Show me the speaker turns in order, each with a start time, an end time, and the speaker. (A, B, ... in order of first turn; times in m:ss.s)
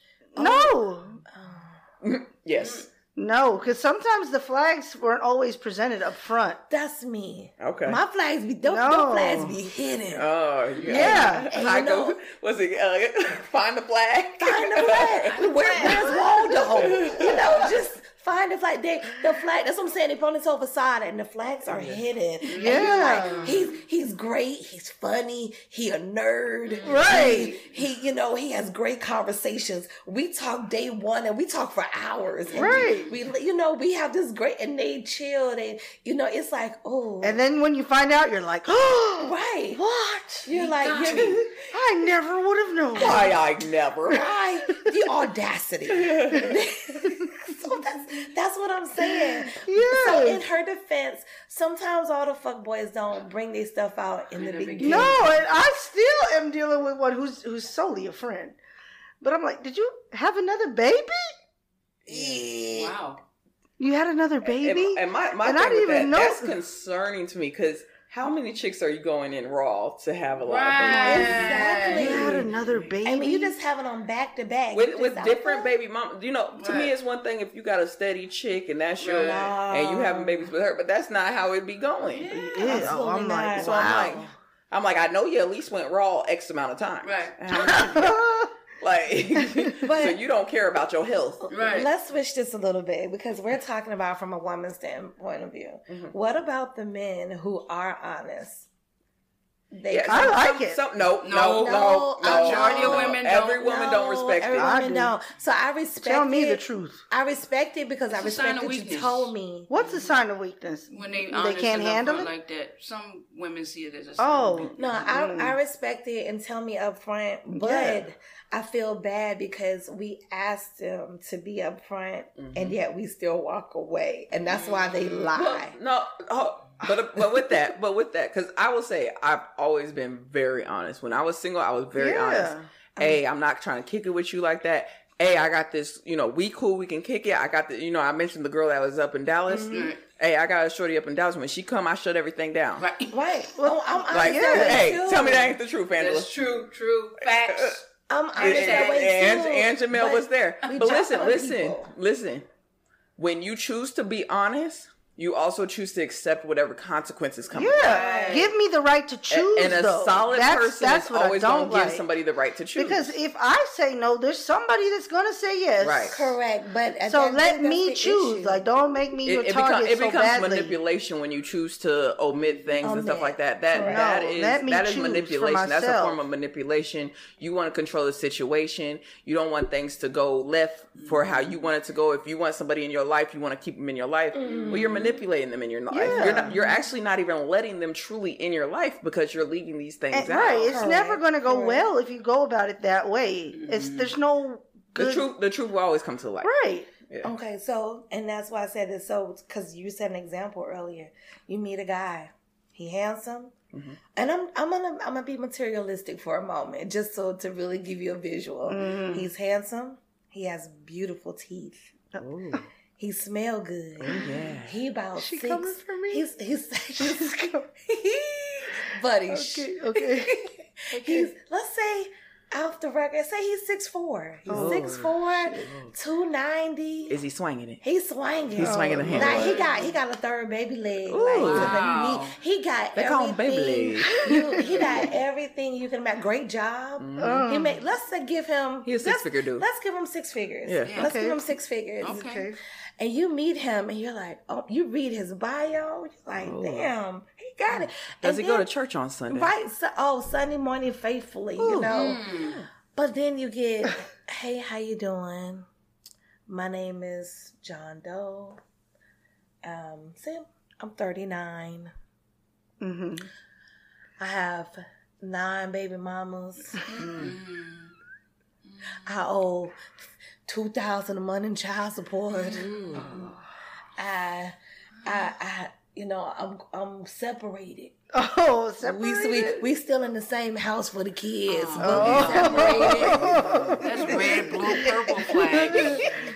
0:00.3-0:01.2 A
0:00.4-0:00.8 B
0:01.3-0:01.8 B
0:02.0-0:02.9 C
0:02.6-0:02.9 D
0:03.1-0:06.6 A
0:06.7-0:10.3 B
0:07.6-0:08.0 C
0:08.6-0:09.6 A
0:10.1-0:17.8 C
0:10.7-0:11.1 D
0:10.8-0:11.4 A
0:10.9-0:12.2 B
0:14.4-0:37.4 B
0:15.8-0:16.1 D
0:21.7-0:22.0 C
0:22.5-0:23.8 D
0:22.6-0:23.5 A
0:26.6-0:27.5 D
0:26.8-0:27.5 A
0:32.4-0:33.2 D
0:32.5-0:33.1 A
0:37.2-0:40.5 A
0:39.2-0:39.8 B
0:40.4-0:41.6 B
0:40.5-0:41.4 D
0:41.0-0:43.3 A
0:42.9-0:44.3 C
0:44.1-0:55.3 B
0:45.9-0:46.5 C
0:49.1-0:50.4 A
0:54.3-0:55.4 D
0:54.8-0:58.6 A
0:59.2-1:01.3 A
1:02.1-1:02.5 C
1:02.1-1:02.9 A
1:02.6-1:03.2 D
1:03.8-1:06.5 A
1:04.4-1:11.5 C
1:10.4-1:13.0 D
1:10.8-1:12.5 B
1:11.9-1:13.5 A
1:13.0-1:15.7 B
1:14.7-1:23.0 C
1:16.6-1:16.9 D
1:19.0-1:19.5 D
1:19.2-1:20.5 B
1:22.0-1:22.9 D
1:22.3-1:24.2 A
1:22.6-1:24.3 B
1:23.5-1:31.5 C
1:27.0-1:27.7 D
1:27.5-1:28.5 A
1:29.8-1:30.2 B
1:31.5-1:31.9 D
1:31.5-1:38.7 B
1:39.7-1:40.4 B
1:39.9-1:44.8 C
1:40.1-1:40.8 A
1:41.2-1:43.6 D
1:41.3-1:49.7 B
1:44.6-1:45.1 A
1:46.0-1:47.0 A
1:48.1-1:50.1 D
1:49.7-1:52.3 A
1:50.9-1:54.9 D
1:54.2-1:55.6 A
1:54.8-2:05.8 B
1:57.5-1:58.0 A
2:02.4-2:02.8 C
2:04.4-2:05.3 D
2:05.3-2:22.9 C
2:12.0-2:12.7 A
2:19.5-2:19.9 B
2:19.7-2:20.0 D
2:22.8-2:23.2 D
2:23.1-2:25.6 B
2:23.6-2:24.9 A
2:24.1-2:26.4 C
2:26.0-2:29.4 D
2:27.2-2:27.8 C
2:28.1-2:31.9 B
2:28.4-2:32.4 C
2:33.2-2:38.0 C
2:37.5-2:42.0 A
2:37.8-2:38.5 D
2:37.9-2:38.5 B
2:39.3-2:43.1 C
2:42.8-2:46.2 A
2:45.8-2:46.2 C
2:46.1-2:48.6 B
2:47.1-2:50.7 A
2:49.2-3:10.7 C
2:52.6-2:52.9 D
2:52.8-2:54.0 B
2:53.8-2:56.2 A
3:01.0-3:01.6 D
3:04.3-3:05.1 B
3:04.5-3:05.2 D
3:05.9-3:06.5 A
3:06.1-3:06.4 B
3:10.1-3:15.3 A
3:10.3-3:10.7 D
3:10.7-3:11.8 B
3:13.5-3:14.1 D
3:14.9-3:16.5 C
3:16.4-3:16.9 A
3:17.2-3:23.5 B
3:23.7-3:24.0 C
3:24.1-3:31.9 B
3:28.7-3:29.3 A
3:32.1-3:32.6 A
3:32.2-3:32.6 C
3:33.0-3:47.2 B
3:34.0-3:34.7 C
3:35.2-3:36.2 A
3:37.0-3:37.5 A
3:39.3-3:40.4 A
3:44.5-3:44.9 A
3:44.5-3:45.9 C
3:47.1-3:47.8 C
3:47.8-4:02.4 B
3:48.6-3:49.6 C
3:48.6-3:49.6 A
3:49.3-3:49.8 D
3:51.1-3:51.8 C
3:51.3-3:52.4 D
3:52.9-3:54.1 C
3:54.2-3:54.6 A
3:54.6-3:55.1 D
3:57.0-3:57.4 C
3:57.2-3:57.8 A
3:58.8-3:59.6 C
4:00.6-4:00.9 C
4:00.8-4:01.1 D
4:01.0-4:01.4 A
4:02.0-4:02.4 D
4:02.1-4:02.6 A
4:03.0-4:08.7 B
4:06.4-4:06.9 C
4:08.2-4:09.5 C
4:09.3-4:15.7 B
4:11.6-4:11.9 A
4:11.9-4:12.6 D
4:16.5-4:18.6 B
4:19.6-4:21.9 B
4:22.8-4:23.3 A
4:24.2-4:26.9 B
4:26.8-4:27.9 D
4:28.7-4:29.0 D
4:29.0-4:29.8 B
4:30.5-4:33.3 B
4:32.4-4:33.3 D
4:34.0-4:38.0 B
4:38.1-4:39.7 A
4:38.8-4:43.4 B
4:41.5-4:46.2 D
4:41.8-4:46.1 A
4:41.9-4:43.8 C
4:44.0-4:46.1 B